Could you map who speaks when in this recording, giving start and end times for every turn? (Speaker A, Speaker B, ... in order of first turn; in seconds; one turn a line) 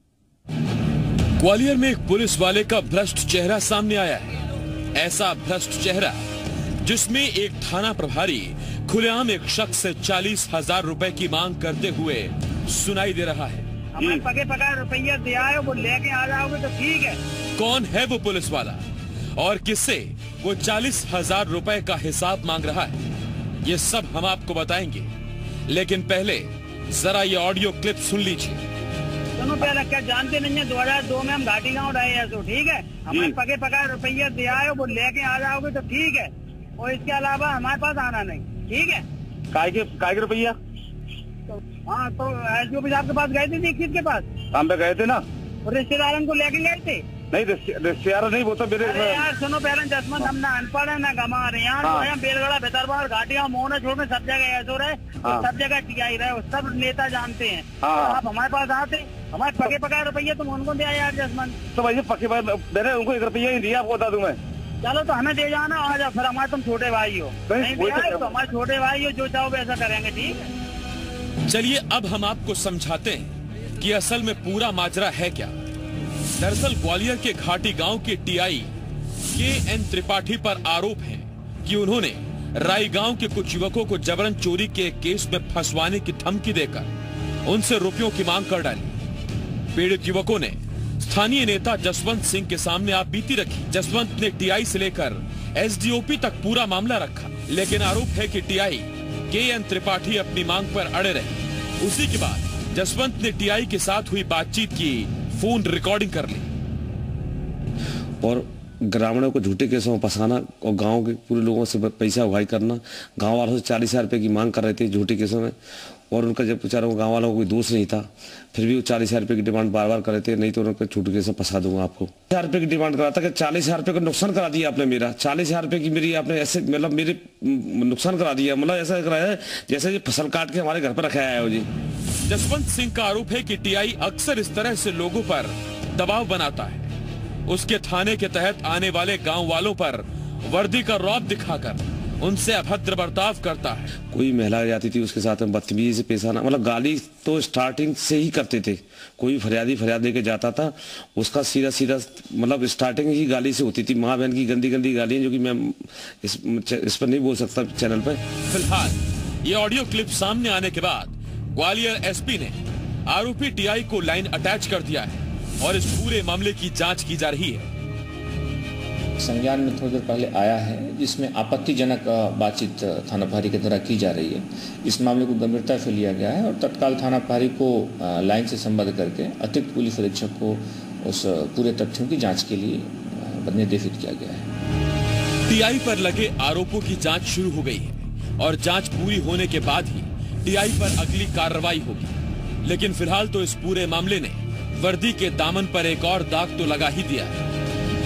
Speaker A: 1.4-4.4
Speaker A: 4.9-6.2
Speaker A: 6.8-13.7
Speaker B: 13.9-17.2
Speaker C: 14.0-14.2
Speaker A: 17.6-18.8
Speaker A: 19.4-23.0
Speaker A: 23.6-25.1
Speaker A: 25.7-28.6
Speaker B: 29.4-39.0
Speaker C: 39.5-40.5
Speaker B: 41.9-44.3
Speaker C: 44.5-45.2
Speaker B: 45.6-47.0
Speaker C: 47.3-49.3
Speaker B: 48.8-61.6
Speaker C: 51.8-52.1
Speaker C: 57.8-58.2
Speaker C: 61.7-64.4
Speaker B: 64.8-70.5
Speaker C: 67.5-68.4
Speaker A: 71.5-75.6
Speaker A: 76.4-78.7
Speaker A: 79.3-86.9
Speaker A: 87.4-89.0
Speaker A: 89.7-106.5
Speaker D: 108.2-115.5
Speaker D: 116.1-131.7
Speaker A: 132.2-136.9
Speaker A: 137.5-143.9
Speaker D: 144.1-158.2
Speaker A: 158.4-167.7
Speaker E: 169.2-184.5
Speaker A: 185.4-197.4